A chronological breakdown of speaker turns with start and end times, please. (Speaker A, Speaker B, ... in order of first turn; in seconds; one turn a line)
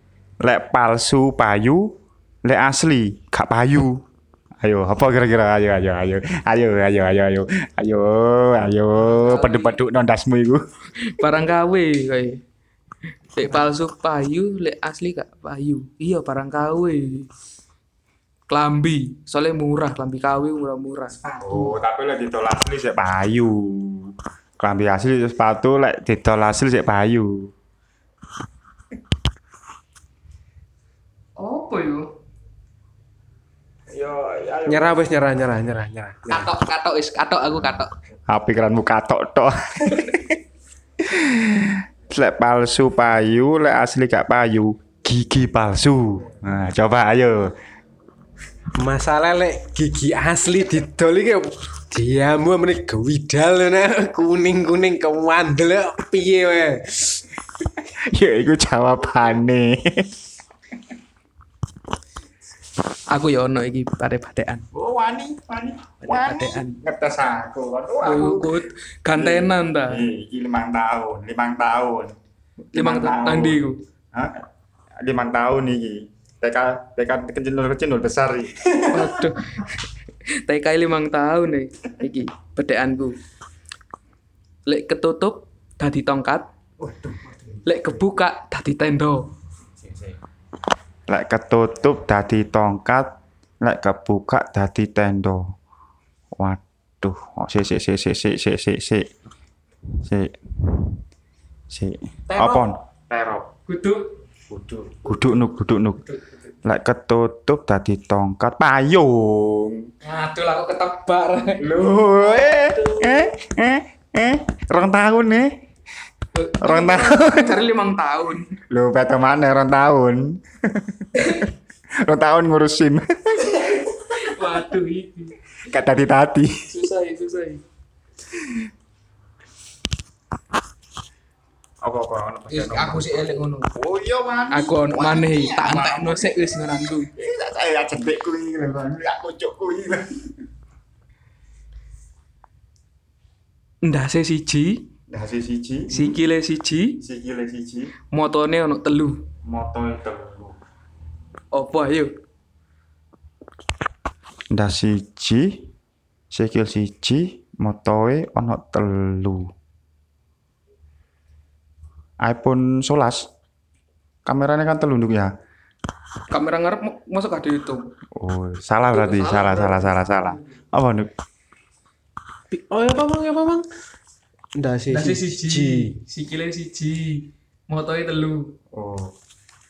Speaker A: 0.4-4.0
Speaker A: 4.6-10.6
Speaker B: 9.0-9.8
Speaker B: 11.0-12.4
Speaker B: 13.3-17.3
Speaker B: 18.5-21.7
Speaker A: 21.4-27.5
Speaker B: 31.4-32.1
Speaker A: 33.9-35.0
Speaker C: 34.7-36.5
Speaker B: 36.3-38.0
Speaker A: 37.7-40.4
Speaker A: 41.0-47.6
Speaker C: 48.8-57.2
Speaker A: 57.9-60.2
Speaker B: 63.1-64.7
Speaker A: 64.7-68.5
Speaker B: 66.0-66.8
Speaker B: 68.0-70.1
Speaker A: 69.2-72.2
Speaker B: 72.7-73.8
Speaker A: 72.8-74.5
Speaker A: 75.0-78.7
Speaker B: 78.9-79.7
Speaker B: 80.5-83.2
Speaker B: 84.7-86.5
Speaker C: 86.8-87.6
Speaker B: 87.7-89.3
Speaker A: 91.1-95.6
Speaker A: 96.3-99.1
Speaker A: 100.0-101.0
Speaker A: 101.7-103.5
Speaker C: 102.3-102.7
Speaker B: 103.7-104.1
Speaker A: 104.5-106.0
Speaker B: 106.0-106.5
Speaker A: 106.6-109.9
Speaker B: 110.0-111.7
Speaker A: 111.6-115.6
Speaker B: 112.3-113.3
Speaker B: 116.3-118.5
Speaker A: 116.6-117.6
Speaker A: 118.7-124.0
Speaker B: 121.2-121.5
Speaker B: 124.1-125.4
Speaker A: 125.7-126.7
Speaker B: 126.7-127.6
Speaker A: 131.8-140.3
Speaker B: 132.5-133.7
Speaker B: 134.5-137.1
Speaker B: 143.8-144.9
Speaker A: 145.1-146.2
Speaker B: 145.9-147.0
Speaker A: 147.0-147.9
Speaker B: 148.1-149.3
Speaker A: 149.4-150.6
Speaker B: 151.5-152.1
Speaker A: 154.5-155.7
Speaker A: 156.3-159.5
Speaker A: 162.2-163.3
Speaker A: 164.2-165.3
Speaker B: 166.3-167.9
Speaker A: 168.2-171.1
Speaker B: 168.9-170.4
Speaker C: 172.5-173.7
Speaker C: 174.6-176.0
Speaker B: 174.9-178.6
Speaker A: 178.7-179.2